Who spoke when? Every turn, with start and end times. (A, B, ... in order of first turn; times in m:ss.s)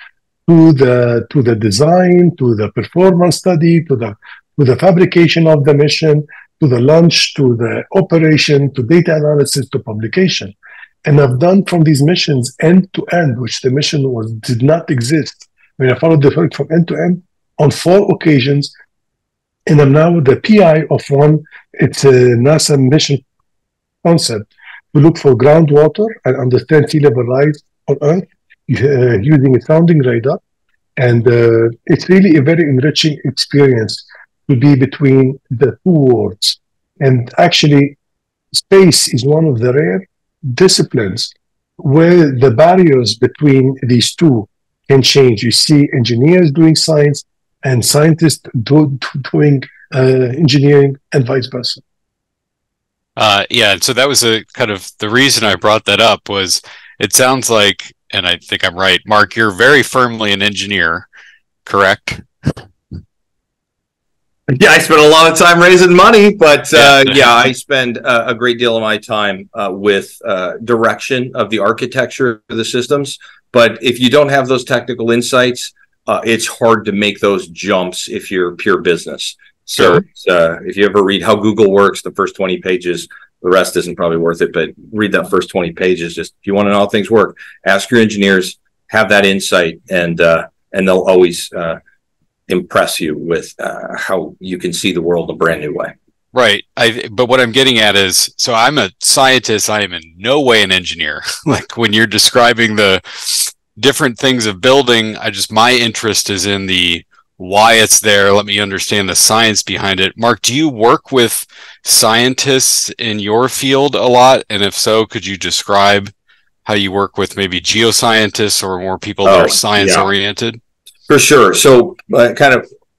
0:00.5-0:10.5 A
0:11.0-0:18.7 A
0:19.7-0:23.2 A
0:24.0-0:30.4 A
0:31.0-0:38.0 A
0:38.5-0:51.8 A
0:53.2-1:01.1 B
1:01.7-1:02.6 B
1:04.5-1:31.8 C
1:06.8-1:07.2 B
1:32.5-1:35.9 C
1:36.3-1:56.1 B
1:56.6-2:00.6 B
1:59.2-2:00.1 C
2:01.1-2:02.7 C